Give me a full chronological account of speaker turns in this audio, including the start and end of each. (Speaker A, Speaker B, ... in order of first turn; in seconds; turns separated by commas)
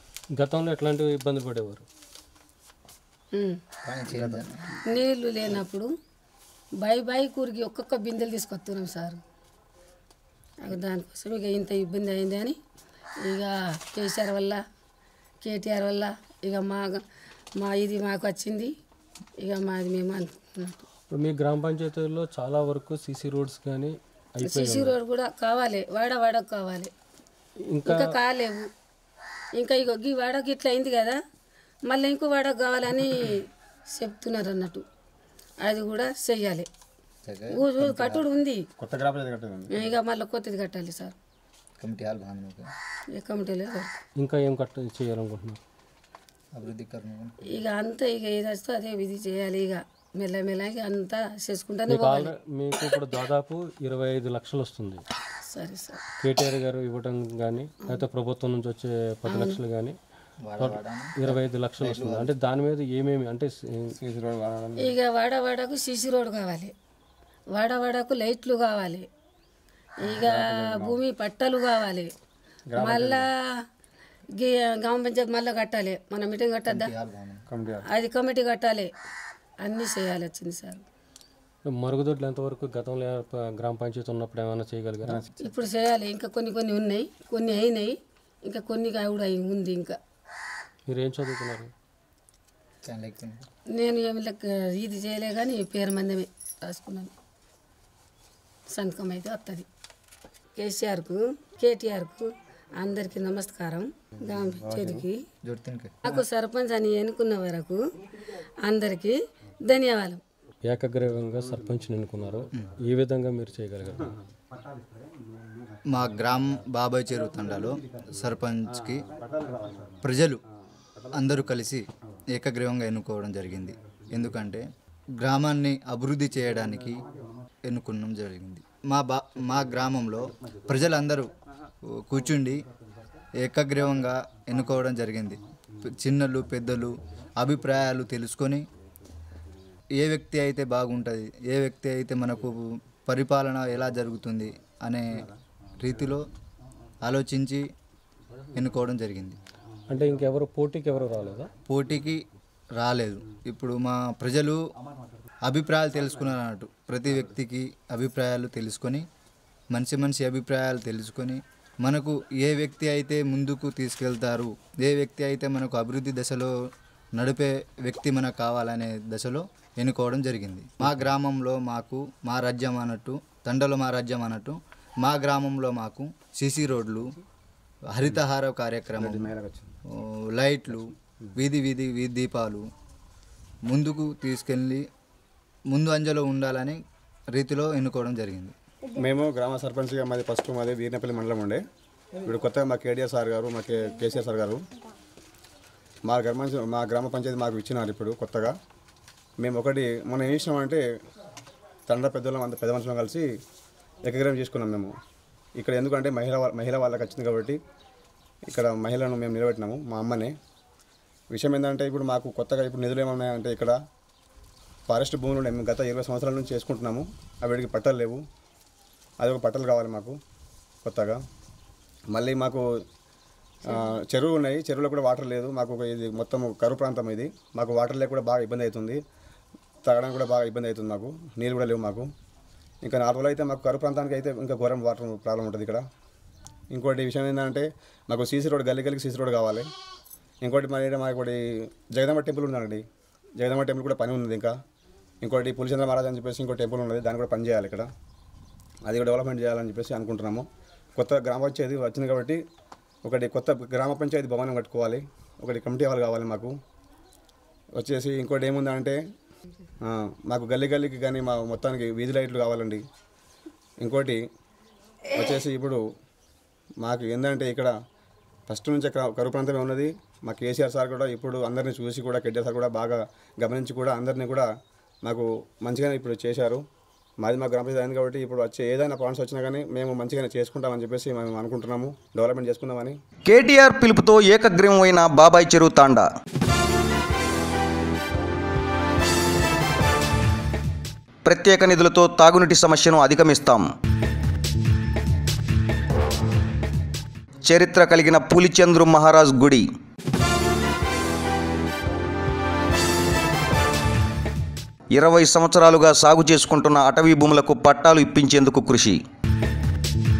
Speaker A: 0.3-1.9, Speaker B: 3.8-4.7, Speaker C: 4.9-5.9, Speaker C: 6.8-9.2, Speaker C: 10.6-12.6, Speaker C: 13.2-14.6, Speaker C: 15.4-17.0, Speaker C: 17.6-18.7, Speaker C: 19.4-20.8, Speaker A: 21.1-25.0, Speaker C: 24.4-26.9, Speaker A: 27.7-28.1, Speaker C: 27.9-28.7, Speaker C: 29.6-31.2, Speaker C: 31.9-34.8, Speaker C: 35.6-36.7, Speaker B: 37.2-38.2, Speaker C: 37.5-38.6, Speaker D: 38.8-39.9, Speaker C: 39.7-41.1, Speaker B: 41.8-42.7, Speaker C: 43.1-43.9, Speaker A: 44.2-45.6, Speaker B: 46.5-47.6, Speaker C: 47.5-52.3, Speaker A: 51.9-55.0, Speaker C: 55.5-56.0, Speaker A: 56.2-60.0, Speaker C: 59.3-59.6, Speaker B: 60.4-62.3, Speaker A: 60.6-64.0, Speaker D: 64.0-64.9, Speaker C: 64.8-66.7, Speaker C: 67.5-69.1, Speaker C: 70.0-72.1, Speaker D: 70.0-71.0, Speaker D: 72.7-73.2, Speaker C: 72.8-73.3, Speaker C: 74.4-76.9, Speaker B: 76.7-77.5, Speaker D: 77.5-77.8, Speaker C: 77.9-78.9, Speaker C: 79.6-80.8, Speaker A: 81.6-85.2, Speaker D: 85.0-85.5, Speaker C: 85.4-90.0, Speaker A: 90.9-91.7, Speaker B: 92.8-93.5, Speaker C: 93.7-97.1, Speaker C: 98.7-99.7, Speaker C: 100.5-105.2, Speaker D: 104.6-105.0, Speaker B: 105.4-106.0, Speaker C: 106.0-107.8, Speaker C: 108.6-110.2, Speaker A: 110.6-114.1, Speaker D: 114.5-114.9, Speaker B: 115.9-119.0, Speaker D: 119.0-120.0, Speaker B: 120.0-120.4, Speaker B: 121.1-124.6, Speaker B: 125.2-127.0, Speaker B: 127.6-131.3, Speaker B: 131.9-132.6, Speaker B: 133.4-138.7, Speaker B: 140.0-146.3, Speaker B: 147.0-147.7, Speaker B: 148.5-149.4, Speaker A: 149.9-151.5, Speaker B: 151.7-152.2, Speaker B: 152.8-154.6, Speaker B: 155.4-159.0, Speaker B: 159.7-166.5, Speaker B: 167.1-177.1, Speaker B: 177.9-179.3, Speaker D: 178.9-179.7, Speaker B: 179.9-182.7, Speaker B: 183.7-184.9, Speaker B: 185.7-188.5, Speaker D: 188.9-191.6, Speaker D: 192.2-194.6, Speaker D: 196.0-198.6, Speaker D: 199.4-200.8, Speaker D: 201.9-203.2, Speaker D: 204.0-204.9, Speaker D: 205.6-207.6, Speaker D: 208.5-210.3, Speaker D: 211.3-213.8, Speaker D: 214.9-218.2, Speaker D: 219.2-220.2, Speaker D: 220.8-221.2, Speaker D: 222.1-222.6, Speaker D: 223.7-229.0, Speaker D: 229.8-232.1, Speaker D: 232.8-235.8, Speaker D: 236.7-239.7, Speaker D: 240.4-242.8, Speaker D: 243.4-244.5, Speaker D: 245.2-247.9, Speaker D: 248.8-250.4, Speaker D: 251.0-252.4, Speaker D: 253.0-256.5, Speaker D: 257.8-259.0, Speaker D: 259.8-262.8, Speaker D: 263.8-264.2, Speaker D: 265.1-265.8, Speaker D: 266.8-267.7, Speaker D: 268.5-274.5, Speaker D: 275.0-276.6, Speaker D: 277.2-282.9, Speaker E: 283.3-286.1, Speaker E: 291.2-293.6, Speaker E: 297.5-299.6, Speaker E: 304.9-308.9